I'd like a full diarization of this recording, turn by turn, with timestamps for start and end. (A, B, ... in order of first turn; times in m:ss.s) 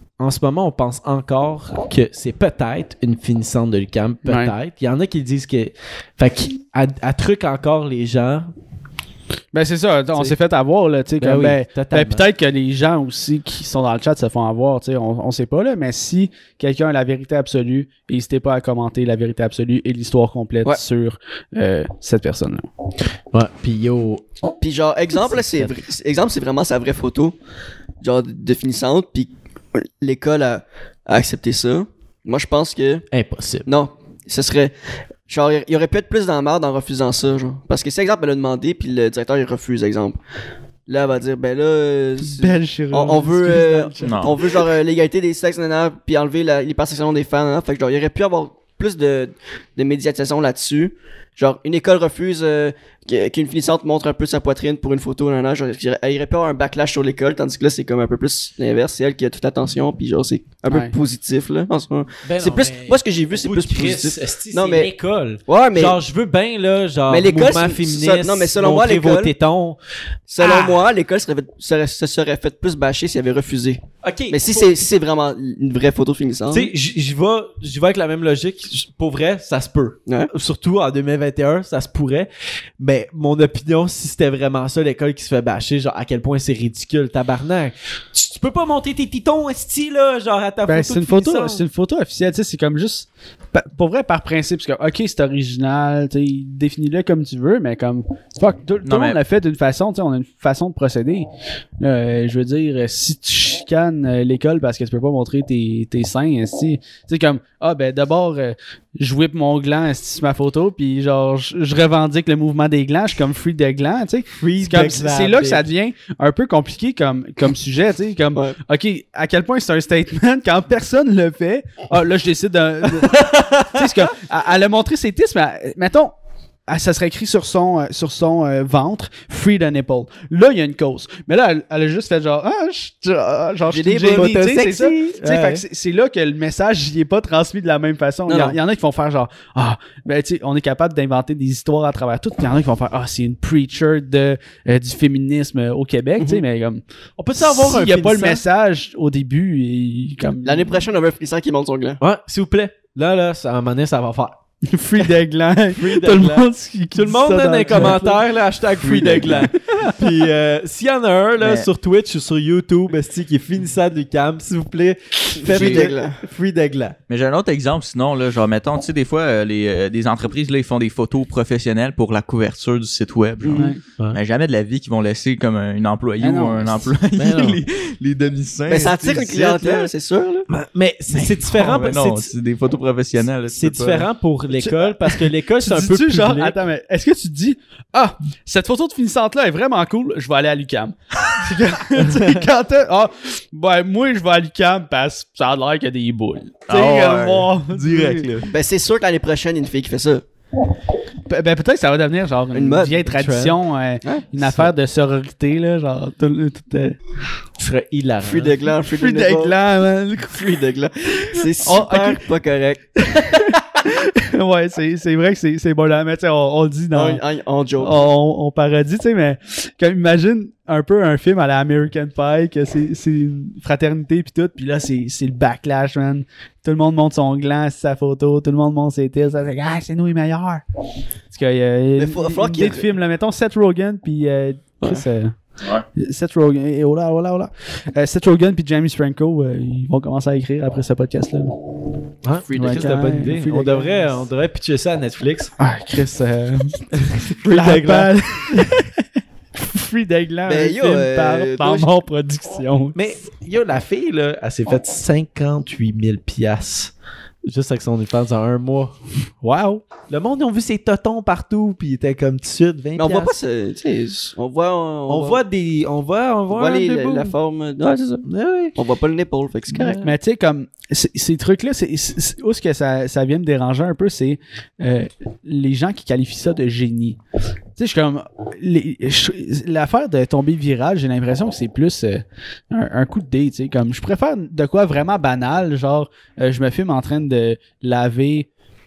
0:00.2-0:08.5 A
0:04.2-0:04.5 B
0:09.5-0:22.7 B
0:11.2-0:12.2 A
0:23.3-0:24.2 A
0:24.6-0:27.4 C
0:25.2-0:25.8 A
0:28.0-0:33.1 C
0:33.1-0:33.7 A
0:33.7-0:34.7 C
0:35.3-0:40.2 C
0:40.9-1:04.9 C
0:42.2-0:44.6 B
0:44.0-0:44.4 D
1:00.7-1:01.0 B
1:02.2-1:09.8 A
1:05.5-1:06.0 C
1:07.1-1:09.3 C
1:10.3-1:16.7 C
1:14.0-1:14.7 A
1:16.5-1:22.3 A
1:20.1-1:20.3 C
1:22.8-1:31.7 A
1:30.7-1:41.3 B
1:38.8-1:39.2 D
1:41.8-2:06.1 B
1:54.4-1:55.7 A
2:03.0-2:04.0 A
2:06.7-2:26.8 B
2:13.7-2:14.4 C
2:14.2-2:15.6 A
2:18.3-2:18.6 C
2:27.2-2:28.4 A
2:27.4-2:30.8 B
2:30.4-2:32.0 C
2:32.0-2:34.4 A
2:34.7-2:38.2 B
2:35.7-2:47.0 A
2:38.8-2:39.9 B
2:41.4-2:41.7 D
2:45.4-2:46.2 C
2:47.1-2:59.9 D
2:53.4-2:53.7 C
2:53.6-2:53.8 B
2:56.2-2:57.0 B
2:57.2-2:57.6 A
2:58.7-3:00.5 C
3:00.5-3:02.3 A
3:01.1-3:04.1 D
3:03.5-3:06.6 A
3:04.7-3:18.3 B
3:12.0-3:12.5 A
3:16.7-3:18.5 D
3:18.5-3:20.2 C
3:21.3-3:27.0 B
3:22.5-3:23.1 C
3:23.1-3:23.6 A
3:24.4-3:24.7 A
3:27.6-3:28.6 A
3:28.2-3:29.6 C
3:28.9-3:30.4 B
3:30.3-3:32.8 C
3:31.3-3:32.3 B
3:33.0-3:37.2 B
3:36.9-3:38.1 C
3:37.8-3:50.6 B
3:51.3-3:55.4 B
3:52.0-3:52.9 C
3:54.8-3:55.1 C
3:55.9-4:01.6 B
4:02.2-4:05.5 A
4:02.5-4:02.9 C
4:02.6-4:04.1 B
4:05.6-4:09.0 B
4:07.1-4:08.6 A
4:09.6-4:13.0 B
4:10.5-4:11.9 C
4:13.0-4:16.9 A
4:17.5-4:18.9 A
4:19.4-4:19.8 B
4:20.1-4:23.3 A
4:23.0-4:25.4 C
4:25.1-4:27.3 A
4:26.5-4:30.0 C
4:28.2-4:28.8 A
4:29.7-4:30.1 A
4:30.0-4:37.2 B
4:37.8-4:48.5 B